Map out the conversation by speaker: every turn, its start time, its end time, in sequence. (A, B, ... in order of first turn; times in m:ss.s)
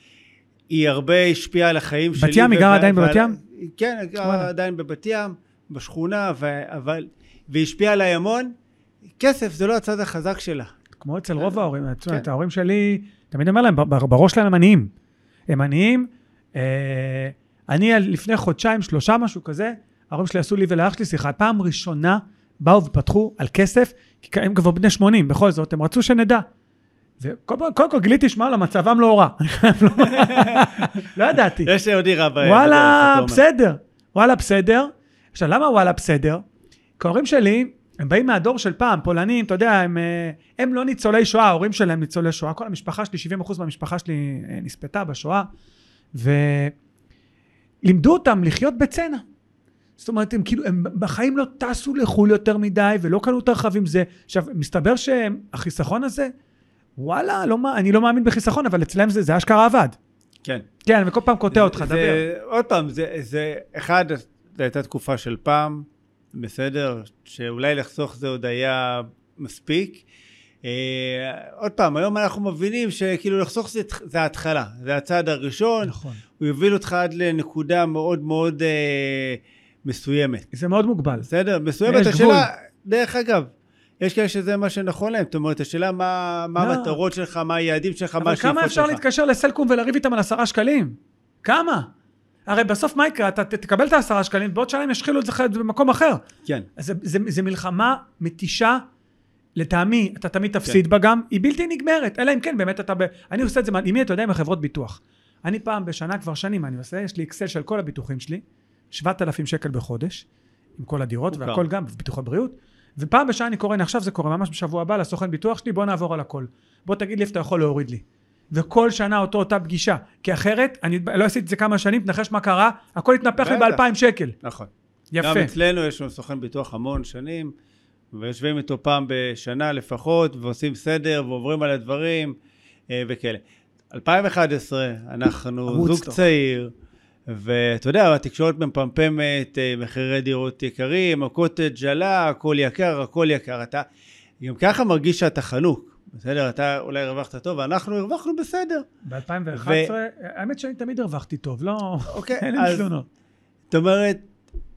0:00.7-0:08.5 A
0:02.2-0:03.4 B
0:04.2-0:04.5 B
0:09.2-0:10.7 A
0:11.0-0:14.9 B
0:15.5-0:26.4 B
0:27.2-0:31.7 B
0:30.0-0:30.9 A
0:31.6-0:33.4 A
0:32.4-0:36.4 B
0:37.0-0:45.5 B
0:46.1-0:46.7 B
0:47.8-0:49.2 B
0:50.0-0:56.3 B
0:57.0-1:00.0 B
1:00.8-1:02.2 B
1:01.5-1:10.0 A
1:10.6-1:20.5 A
1:15.8-1:16.2 B
1:20.5-1:21.3 B
1:21.2-1:23.5 A
1:21.8-1:22.5 B
1:24.0-1:29.0 A
1:26.6-1:27.0 B
1:28.2-1:31.9 B
1:32.5-1:36.2 B
1:36.8-1:38.8 B
1:39.6-1:50.2 B
1:50.8-2:04.4 B
1:51.3-1:51.6 A
2:03.4-2:03.8 A
2:04.4-2:07.5 A
2:05.1-2:05.5 B
2:08.1-2:12.4 A
2:12.9-2:16.7 A
2:15.7-2:16.2 B
2:17.3-2:23.8 A
2:24.4-2:28.8 A
2:29.0-2:33.0 B
2:29.5-2:29.9 A
2:32.1-2:32.9 A
2:33.7-2:34.2 A